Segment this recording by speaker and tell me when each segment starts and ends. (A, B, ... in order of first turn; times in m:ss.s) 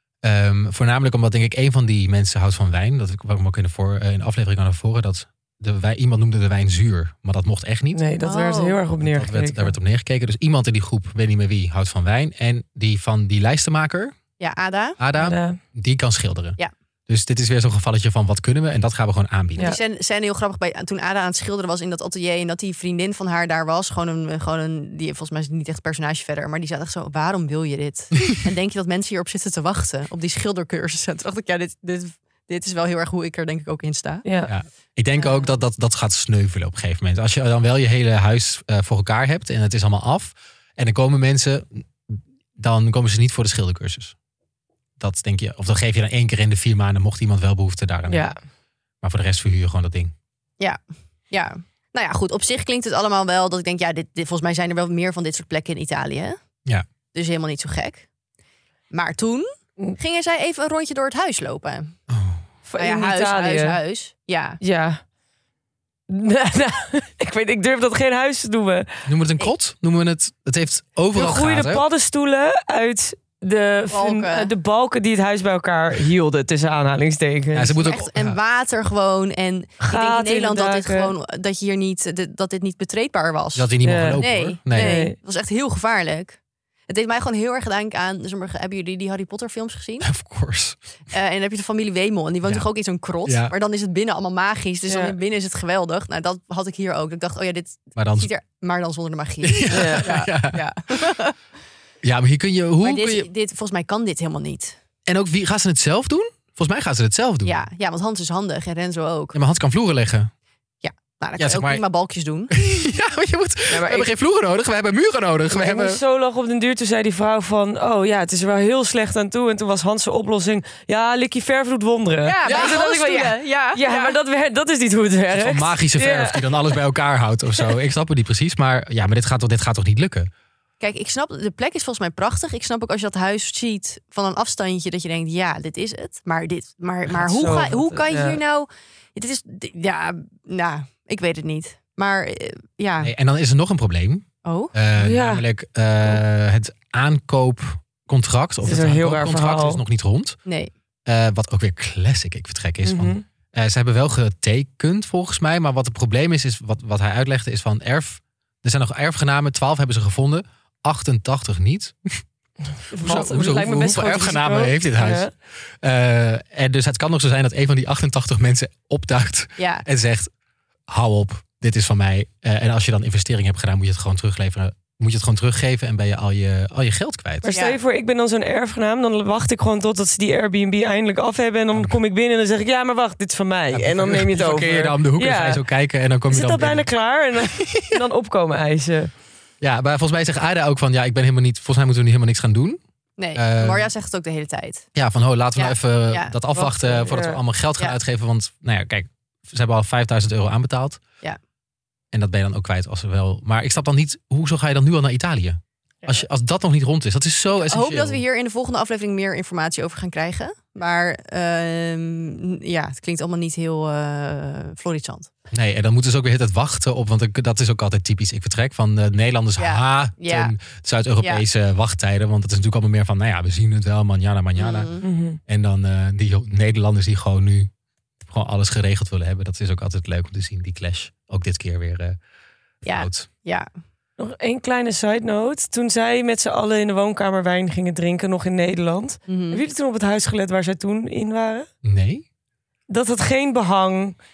0:00.2-0:08.0 A
0:08.0-0:09.7 B
0:08.2-0:08.8 C
0:09.0-0:14.2 A
0:14.4-0:15.0 C
0:15.0-0:19.7 A
0:15.2-0:15.6 B
0:19.6-0:34.2 C
0:34.2-0:34.5 B
0:34.5-0:44.2 A
0:35.2-0:35.5 C
0:45.0-0:48.4 A
0:48.1-0:48.4 B
0:49.0-0:50.1 A
0:51.3-0:56.4 C
0:57.1-0:58.1 C
0:58.9-1:02.0 C
1:02.1-1:02.4 A
1:02.7-1:03.8 B
1:02.8-1:04.6 C
1:04.6-1:05.0 B
1:06.1-1:08.9 B
1:09.1-1:11.8 A
1:11.2-1:17.7 B
1:13.9-1:14.5 C
1:17.5-1:18.4 A
1:17.8-1:30.1 C
1:19.8-1:21.1 B
1:23.6-1:24.9 A
1:23.8-1:25.2 B
1:30.0-1:30.8 A
1:31.1-1:41.4 C
1:33.2-1:33.5 A
1:34.9-1:35.2 B
1:38.0-1:38.3 A
1:39.4-1:40.6 A
1:39.7-1:40.1 B
1:42.0-1:43.3 A
1:42.8-1:44.8 C
1:45.1-1:47.6 A
1:47.4-1:49.4 C
1:49.3-1:50.3 A
1:50.8-1:52.5 C
1:51.4-1:51.8 A
1:52.5-1:56.0 A
1:53.7-1:54.0 B
1:55.5-2:06.6 B
2:02.2-2:04.2 C
2:02.5-2:02.8 A
2:05.3-2:10.3 A
2:10.8-2:23.1 C
2:17.1-2:18.4 B
2:23.0-2:30.4 A
2:24.4-2:24.7 C
2:25.0-2:25.4 B
2:28.6-2:29.8 B
2:30.5-2:30.7 C
2:31.1-2:42.2 A
2:32.8-2:33.2 B
2:42.9-2:45.3 B
2:43.0-2:50.3 A
2:49.6-2:49.8 C
2:50.9-2:57.5 A
2:57.4-3:05.6 B
2:57.5-2:57.8 C
3:03.7-3:06.9 A
3:06.3-3:09.1 B
3:09.6-3:12.8 A
3:13.2-3:14.9 C
3:13.4-3:13.9 A
3:15.0-3:21.0 A
3:15.6-3:16.4 C
3:16.6-3:17.4 B
3:22.1-3:28.2 A
3:27.6-3:35.3 C
3:35.5-3:44.9 A
3:39.6-3:40.5 C
3:41.2-3:41.4 C
3:44.6-3:45.0 C
3:45.0-3:45.4 B
3:45.5-3:47.7 A
3:48.2-3:52.2 A
3:52.8-3:53.7 C
3:52.9-3:53.3 A
3:54.2-4:01.7 B
3:59.3-3:59.6 C
4:01.8-4:02.2 A
4:02.9-4:04.2 B